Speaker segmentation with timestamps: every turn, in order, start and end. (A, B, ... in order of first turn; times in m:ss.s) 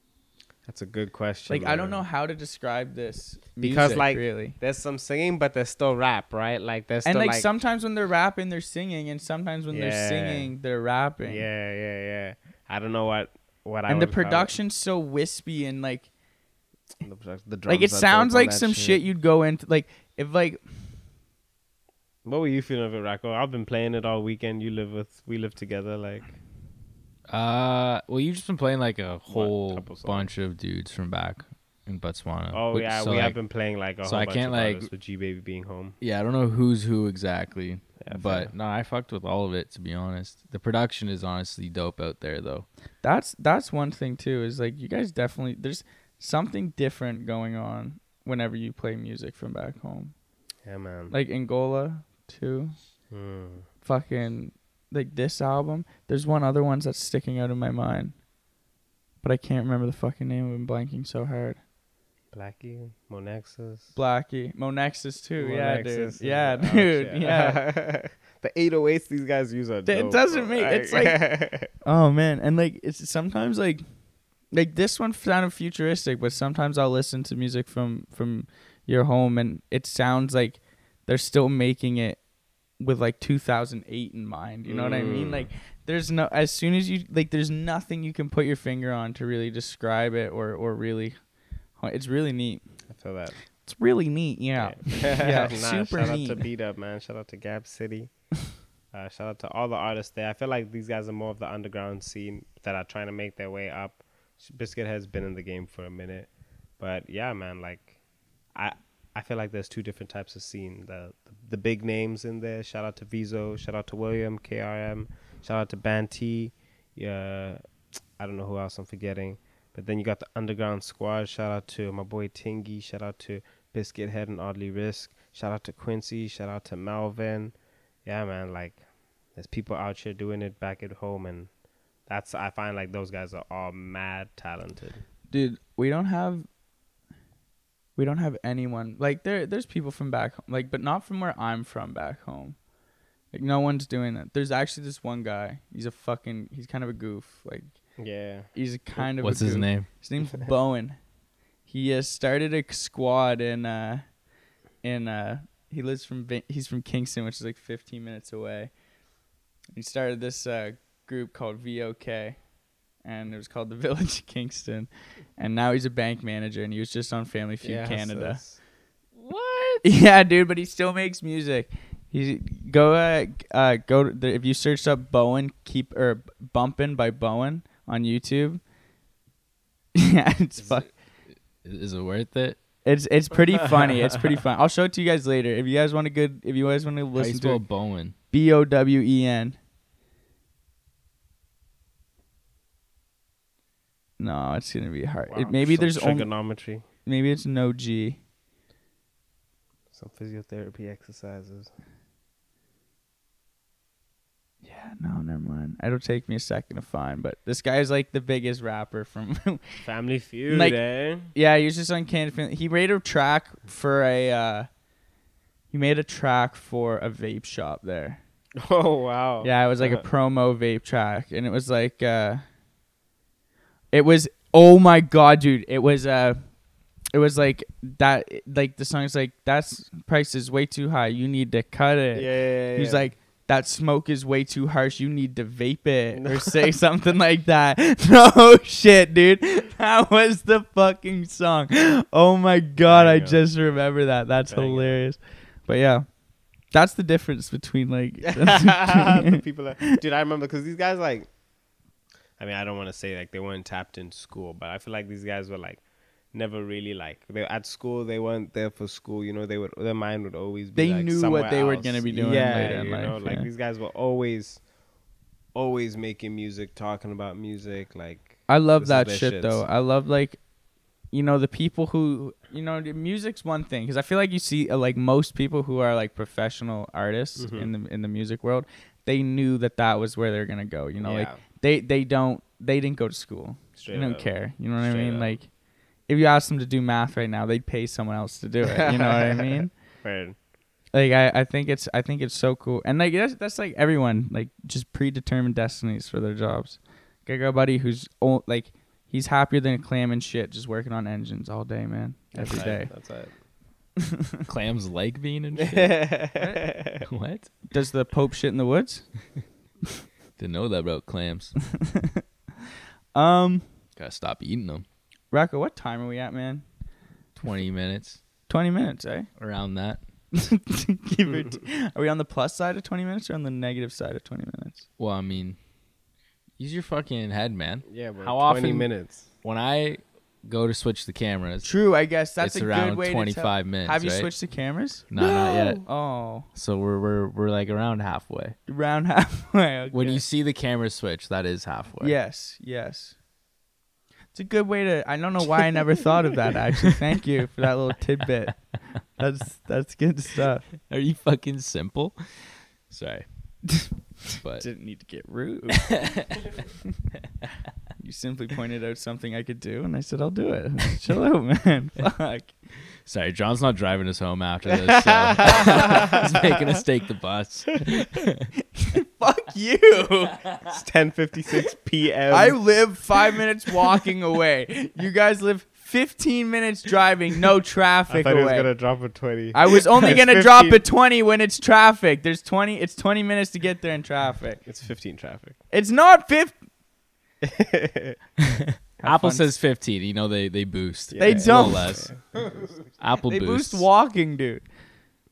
0:00.6-0:02.0 A
0:01.5-0:04.6 B
0:03.6-0:07.5 A
0:07.0-0:11.5 B
0:09.7-0:10.5 A
0:11.2-0:14.6 A
0:13.9-0:16.1 B
0:17.0-0:19.0 A
0:17.6-0:20.6 B
0:22.2-0:26.4 A
0:27.3-0:33.4 C
0:29.3-0:30.3 A
0:32.5-0:36.0 A
0:34.0-0:34.9 C
0:36.0-0:42.6 C
0:38.0-0:38.5 A
0:43.0-0:50.1 B
0:50.6-0:51.1 A
0:51.1-0:52.8 B
0:53.1-0:53.6 A
0:53.8-0:58.2 B
0:59.2-1:01.6 B
1:02.3-1:03.9 A
1:03.9-1:07.6 B
1:05.4-1:11.7 A
1:09.8-1:13.8 B
1:14.5-1:22.2 B
1:22.8-1:31.2 B
1:24.7-1:25.5 A
1:31.8-1:32.6 B
1:32.9-1:33.4 A
1:33.6-1:36.4 B
1:34.6-1:38.2 A
1:38.9-1:48.0 A
1:48.5-1:57.6 A
1:58.2-2:08.8 A
2:09.3-2:11.5 A
2:12.0-2:15.0 A
2:15.3-2:16.5 B
2:18.0-2:22.6 B
2:23.3-2:27.8 B
2:28.0-2:28.5 A
2:28.5-2:31.0 B
2:29.2-2:29.9 C
2:31.6-2:34.1 B
2:34.8-2:38.7 B
2:39.7-2:42.5 B
2:43.0-2:48.4 B
2:47.6-2:48.6 A
2:49.2-2:49.8 C
2:49.8-2:58.6 B
2:59.9-3:00.9 B
3:00.6-3:00.9 C
3:01.6-3:02.6 C
3:02.8-3:09.6 B
3:07.2-3:08.1 C
3:14.2-3:18.2 B
3:15.3-3:16.8 A
3:19.9-3:21.7 A
3:24.6-3:29.8 B
3:29.8-3:31.3 A
3:30.5-3:34.7 B
3:35.7-3:38.2 B
3:38.6-3:40.0 A
3:39.4-3:42.4 B
3:43.9-3:46.4 B
3:47.1-4:09.4 B
3:52.1-3:53.1 A
3:56.2-3:56.6 A
4:02.8-4:03.4 A
4:04.5-4:05.0 A
4:08.2-4:11.3 A
4:12.4-4:24.6 A
4:20.7-4:23.5 B
4:25.5-4:29.6 A
4:28.5-4:30.4 B
4:31.1-4:45.5 B
4:37.4-4:37.7 A
4:41.0-4:41.4 A
4:43.8-4:45.4 A
4:46.0-4:49.7 B
4:48.6-4:50.4 A
4:50.9-5:02.9 B
5:02.3-5:03.3 A
5:04.5-5:06.0 C
5:05.6-5:07.0 A
5:07.0-5:07.5 C
5:07.7-5:09.1 B
5:10.4-5:11.6 C
5:11.8-5:12.2 B
5:13.1-5:13.7 B
5:14.0-5:14.8 C
5:15.3-5:16.6 B
5:17.4-5:18.2 C
5:18.5-5:19.3 B
5:19.4-5:20.0 C
5:20.3-5:24.8 B
5:25.0-5:25.6 C
5:26.6-5:31.7 C
5:27.8-5:29.3 A
5:31.6-5:35.1 B
5:32.4-5:34.3 C
5:35.1-5:38.6 C
5:35.2-5:35.8 A
5:35.8-5:36.5 B
5:38.7-5:40.2 B
5:39.9-5:42.1 C
5:42.0-5:43.2 B
5:44.3-5:50.7 B
5:50.8-5:54.7 C
5:54.6-5:56.1 B
5:55.9-5:56.4 C
5:58.0-6:02.6 B
6:03.0-6:08.4 C
6:04.7-6:06.1 A
6:08.8-6:10.5 B
6:10.7-6:12.8 A
6:12.3-6:18.7 B
6:18.1-6:20.8 A
6:19.5-6:24.6 B
6:24.6-6:25.6 A
6:25.7-6:26.6 B
6:27.4-6:28.2 A
6:28.9-6:33.9 C
6:29.0-6:29.5 B
6:31.1-6:32.8 A
6:31.2-6:32.0 B
6:33.2-6:34.6 B